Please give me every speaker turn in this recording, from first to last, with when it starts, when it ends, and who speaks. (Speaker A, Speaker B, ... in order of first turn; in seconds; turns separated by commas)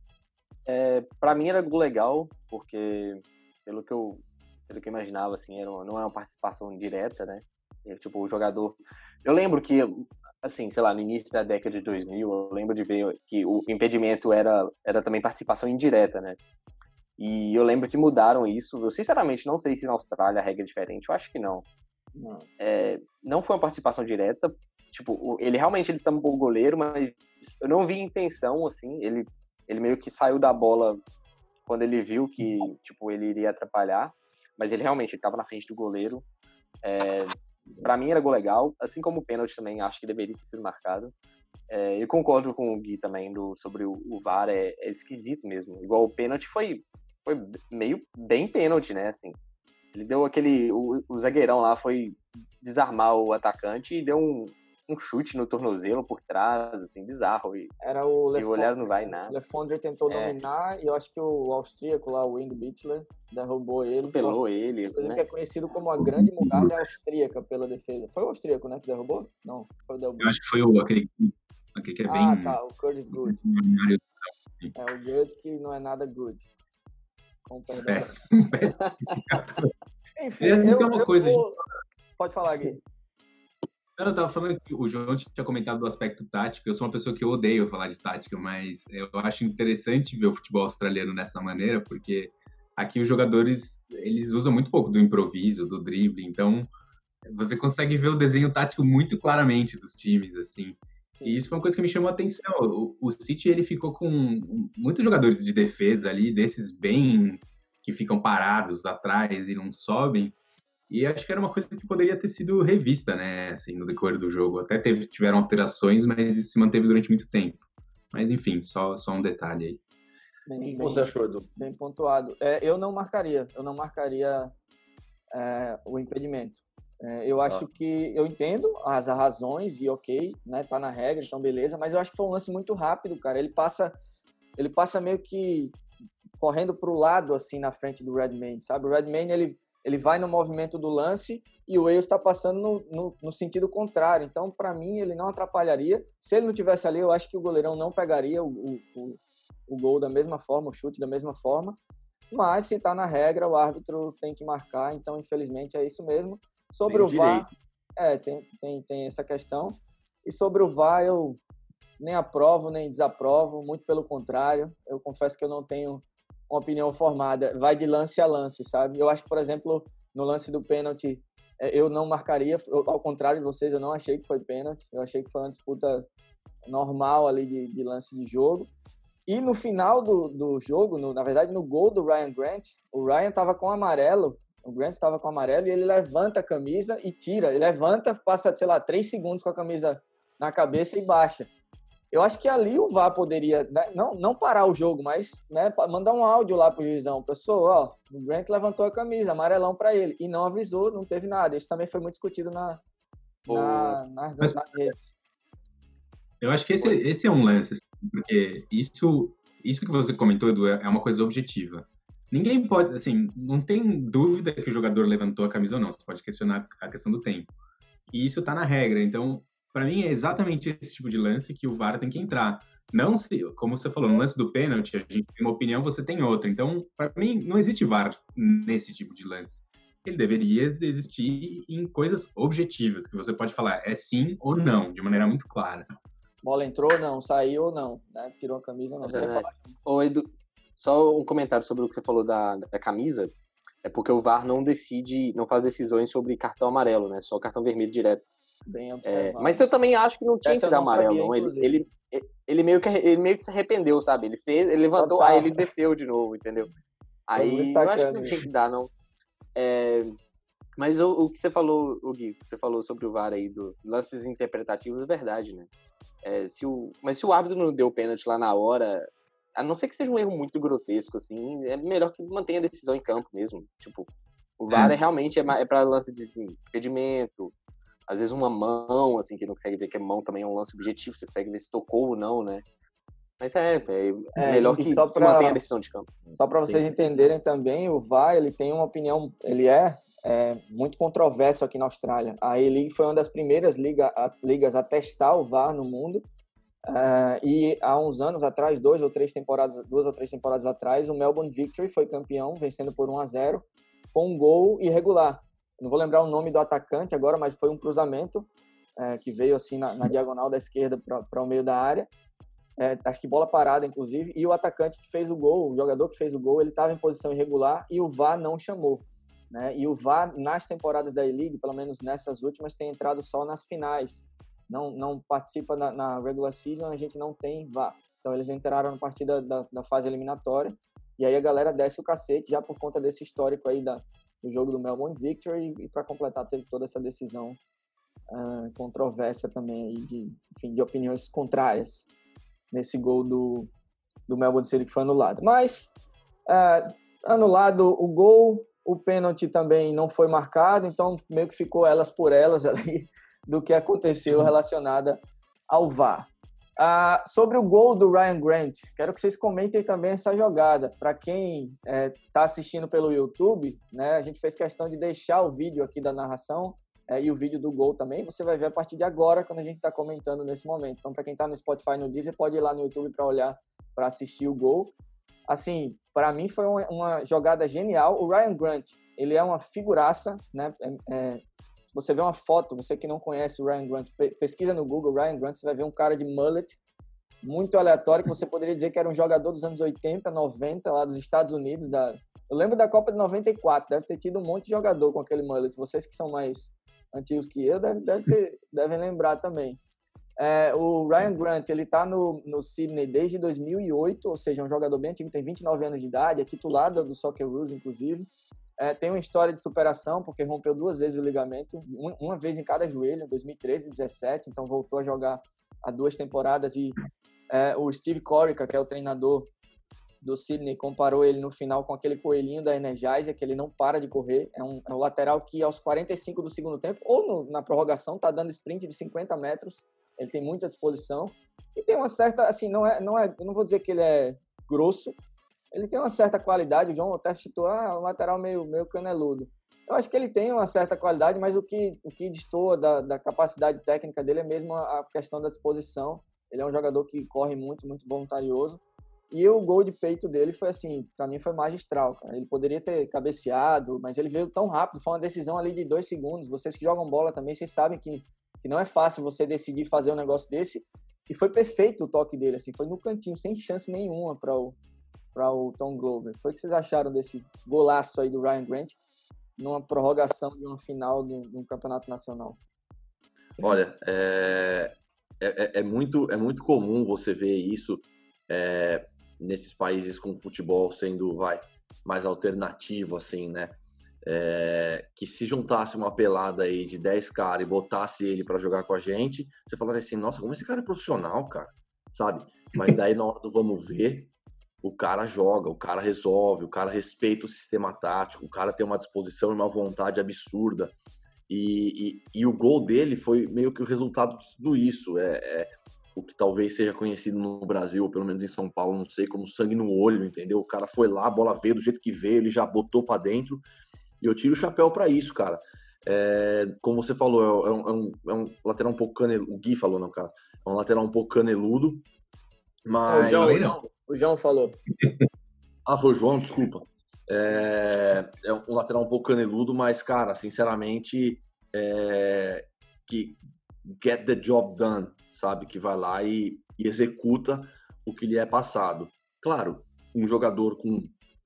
Speaker A: 0.7-16.4, Speaker A: 17.2-21.7, Speaker B: 22.2-22.5, Speaker A: 22.6-31.0, Speaker A: 31.7-36.2, Speaker A: 36.8-41.1, Speaker A: 41.7-49.4, Speaker A: 49.9-57.7, Speaker B: 57.8-64.4, Speaker A: 58.4-59.4, Speaker A: 60.1-60.4, Speaker A: 64.0-65.2, Speaker B: 65.0-70.3, Speaker C: 66.1-66.8, Speaker C: 70.2-72.6, Speaker B: 72.1-73.4, Speaker C: 73.2-74.1, Speaker B: 74.8-76.5, Speaker B: 77.5-78.2, Speaker C: 77.8-79.7, Speaker B: 80.2-81.6, Speaker C: 80.4-81.4, Speaker B: 82.2-82.8, Speaker C: 84.0-96.7, Speaker C: 97.3-110.4, Speaker B: 101.2-101.4, Speaker C: 110.9-119.8, Speaker B: 120.5-124.5, Speaker D: 120.6-121.5, Speaker B: 125.3-134.0, Speaker B: 134.6-135.8, Speaker B: 136.4-151.8, Speaker B: 152.3-161.4, Speaker D: 156.9-157.5, Speaker B: 162.0-176.1, Speaker B: 176.7-178.7, Speaker B: 179.3-191.5, Speaker B: 192.1-202.8, Speaker B: 203.5-205.1, Speaker A: 203.5-204.0, Speaker C: 206.4-217.5, Speaker C: 218.1-235.9, Speaker B: 236.4-239.8, Speaker A: 239.1-248.3, Speaker B: 248.7-249.7, Speaker A: 249.1-256.7, Speaker B: 250.4-251.8, Speaker B: 255.0-255.7, Speaker A: 257.3-258.9, Speaker B: 257.4-258.4, Speaker A: 259.6-260.1, Speaker A: 260.8-265.7, Speaker A: 266.2-277.5, Speaker A: 278.1-282.6, Speaker A: 283.4-287.0, Speaker B: 284.4-285.6, Speaker B: 286.4-296.2, Speaker B: 296.9-312.1, Speaker B: 312.8-337.6, Speaker B: 338.3-342.1, Speaker B: 342.7-343.7, Speaker B: 344.3-345.9, Speaker B: 346.5-374.9, Speaker B: 375.5-381.4, Speaker B: 381.9-386.8, Speaker B: 387.4-399.8, Speaker B: 400.4-408.3, Speaker B: 408.8-417.0, Speaker B: 417.5-419.5, Speaker B: 420.2-435.2, Speaker B: 435.7-464.8, Speaker B: 465.3-469.0, Speaker B: 469.6-472.6, Speaker D: 473.6-500.9, Speaker D: 501.5-513.6, Speaker D: 514.2-522.1, Speaker D: 522.9-523.8, Speaker B: 523.1-524.8, Speaker C: 523.2-523.8, Speaker D: 525.9-541.1